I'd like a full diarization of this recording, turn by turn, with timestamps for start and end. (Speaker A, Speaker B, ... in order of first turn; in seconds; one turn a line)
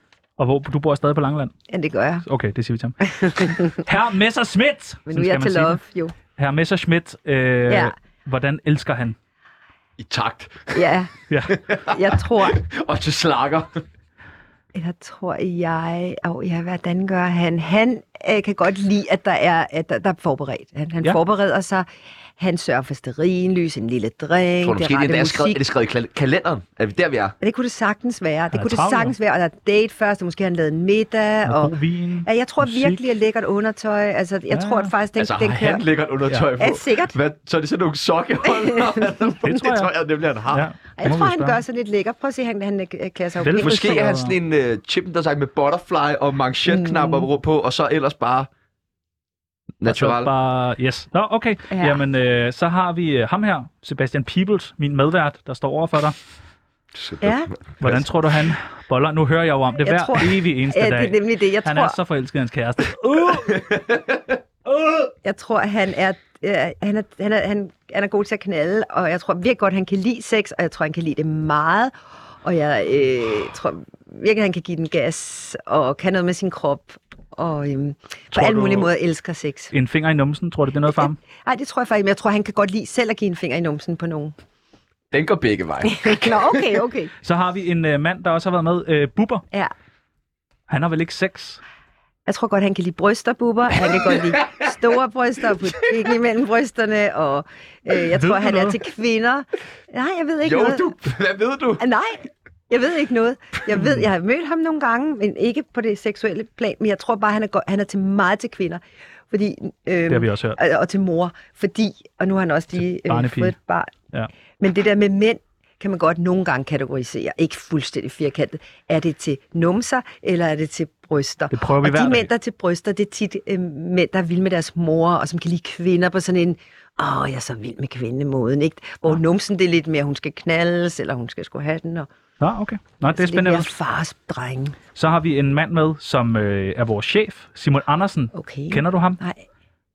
Speaker A: 0.4-1.5
Speaker B: 1.7-2.2
Speaker A: 2.2-5.8
Speaker B: 3.1-3.8
Speaker B: 5.1-6.1
Speaker A: 6.3-9.2
Speaker B: 7.7-7.9
Speaker C: 10.0-10.9
Speaker B: 10.7-11.1
Speaker A: 11.3-11.6
Speaker C: 11.5-13.8
Speaker B: 11.8-12.6
Speaker B: 14.7-21.9
Speaker B: 22.4-25.6
Speaker C: 24.6-27.4
Speaker B: 27.4-35.8
Speaker A: 28.5-29.1
Speaker A: 31.5-33.0
Speaker A: 34.5-34.9
Speaker C: 35.2-40.7
Speaker B: 36.6-37.1
Speaker B: 38.5-39.1
Speaker A: 39.4-39.9
Speaker A: 40.5-41.6
Speaker B: 41.0-43.9
Speaker A: 43.4-44.4
Speaker C: 43.6-48.5
Speaker B: 46.7-47.3
Speaker C: 49.8-50.3
Speaker A: 49.8-56.2
Speaker B: 51.7-52.0
Speaker C: 57.0-58.0
Speaker B: 57.2-57.5
Speaker A: 57.8-63.8
Speaker B: 59.8-62.0
Speaker C: 63.5-64.3
Speaker B: 65.2-79.7
Speaker A: 78.3-78.9
Speaker A: 79.7-81.2
Speaker B: 81.2-84.3
Speaker C: 85.1-86.7
Speaker B: 85.8-87.1
Speaker A: 87.2-89.5
Speaker A: 90.7-91.6
Speaker B: 92.3-100.9
Speaker C: 94.0-94.7
Speaker A: 98.0-98.8
Speaker C: 100.5-101.8
Speaker B: 101.8-113.9
Speaker A: 110.1-110.6
Speaker A: 112.9-113.5
Speaker B: 114.6-132.1
Speaker A: 121.5-122.3
Speaker A: 132.4-133.7
Speaker B: 133.1-134.8
Speaker A: 135.0-139.2
Speaker B: 138.3-139.4